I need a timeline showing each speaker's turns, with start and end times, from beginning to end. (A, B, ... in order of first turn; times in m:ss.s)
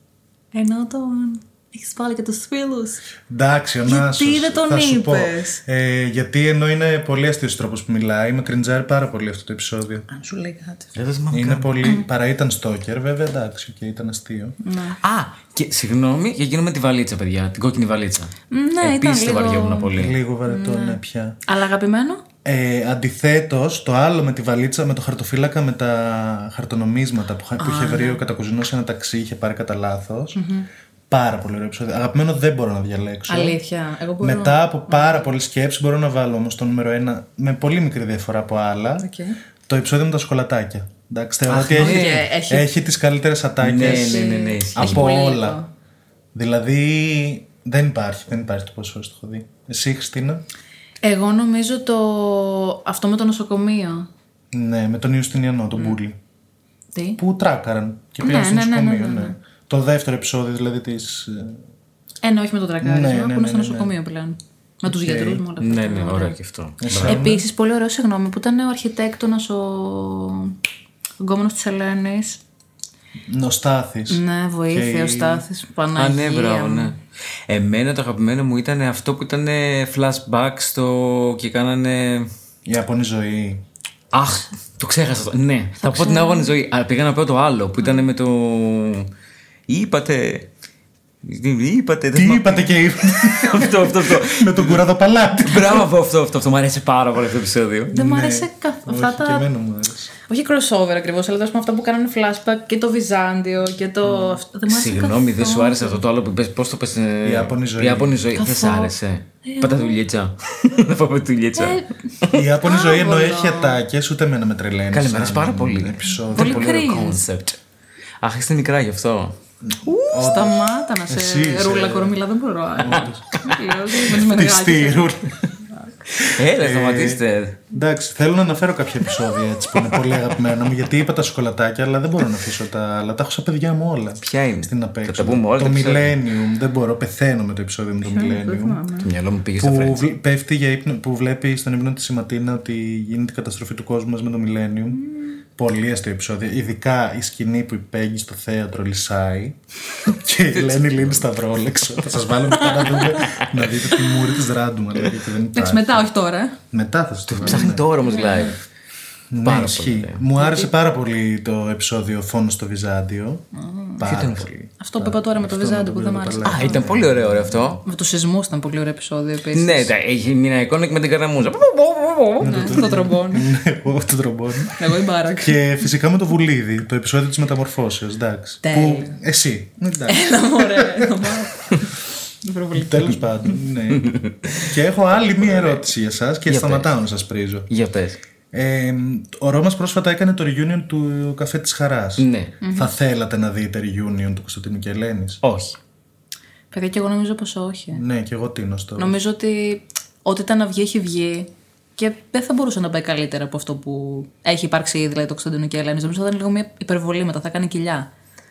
0:00.5-0:03.0 A
0:03.3-0:10.1 B
0:03.9-0:05.6 A
0:10.1-0:10.9 A
0:10.9-0:11.8 C
0:11.3-0:14.6 B
0:14.6-0:15.0 A
0:15.0-0:20.2 C
0:18.5-0:19.9 A
0:19.9-0:21.4 B
0:20.5-0:22.2 A
0:22.4-0:30.4 B
0:27.6-0:28.2 A
0:30.3-0:30.7 A
0:31.1-0:33.6 B
0:33.3-0:35.2 A
0:34.2-0:39.1 B
0:39.0-0:39.4 A
0:39.7-0:45.6 B
0:41.5-0:42.2 C
0:41.7-0:42.7 A
0:43.6-0:45.1 C
0:43.8-0:45.7 A
0:46.3-0:50.4 B
0:51.0-0:54.1 A
0:54.5-0:56.2 B
0:56.9-0:57.2 A
0:57.2-1:01.6 B
0:58.2-0:59.4 A
1:02.2-1:06.3 A
1:02.8-1:03.9 B
1:04.8-1:05.4 B
1:05.6-1:07.2 C
1:06.8-1:07.4 B
1:07.0-1:10.6 A
1:11.2-1:12.4 A
1:13.3-1:15.4 B
1:14.1-1:16.9 A
1:16.0-1:22.3 C
1:22.6-1:23.6 B
1:24.1-1:29.1 C
1:25.8-1:26.5 A
1:29.7-1:30.5 C
1:31.2-1:37.9 C
1:32.1-1:35.9 B
1:37.9-1:39.4 A
1:37.9-1:40.1 B
1:40.3-1:46.0 A
1:44.7-1:52.4 C
1:47.2-1:48.2 B
1:48.3-1:48.9 A
1:49.4-1:50.0 A
1:51.6-1:51.9 A
1:52.3-1:56.8 B
1:52.6-1:53.8 A
1:54.9-1:57.6 C
1:56.3-1:57.2 A
1:58.2-1:59.4 C
1:59.6-2:02.2 B
1:59.8-2:05.2 A
2:02.8-2:03.4 B
2:04.0-2:05.3 B
2:06.2-2:07.6 C
2:06.5-2:18.8 B
2:14.2-2:16.2 C
2:18.0-2:19.1 A
2:19.0-2:20.0 C
2:19.6-2:36.0 B
2:25.0-2:25.4 A
2:30.5-2:31.2 C
2:32.6-2:33.6 C
2:35.5-2:36.6 A
2:36.7-2:37.8 B
2:37.3-2:38.6 C
2:37.5-2:38.6 A
2:39.3-2:43.4 B
2:39.4-2:40.2 C
2:40.4-2:40.7 A
2:43.5-2:44.1 A
2:44.0-2:47.5 B
2:44.0-2:44.5 C
2:44.8-2:46.8 A
2:46.4-2:47.8 C
2:47.8-2:49.9 A
2:49.5-2:52.9 C
2:52.4-2:53.5 A
2:52.4-3:01.4 B
2:54.8-2:55.6 A
2:58.6-2:59.2 A
3:00.1-3:01.9 A
3:02.4-3:03.2 A
3:02.7-3:07.7 B
3:03.9-3:04.7 C
3:05.3-3:05.8 C
3:06.4-3:06.9 C
3:07.7-3:08.2 C
3:08.5-3:15.4 B
3:12.2-3:12.5 C
3:12.6-3:12.9 A
3:15.4-3:15.8 C
3:16.7-3:18.0 A
3:17.9-3:19.2 B
3:19.0-3:28.1 A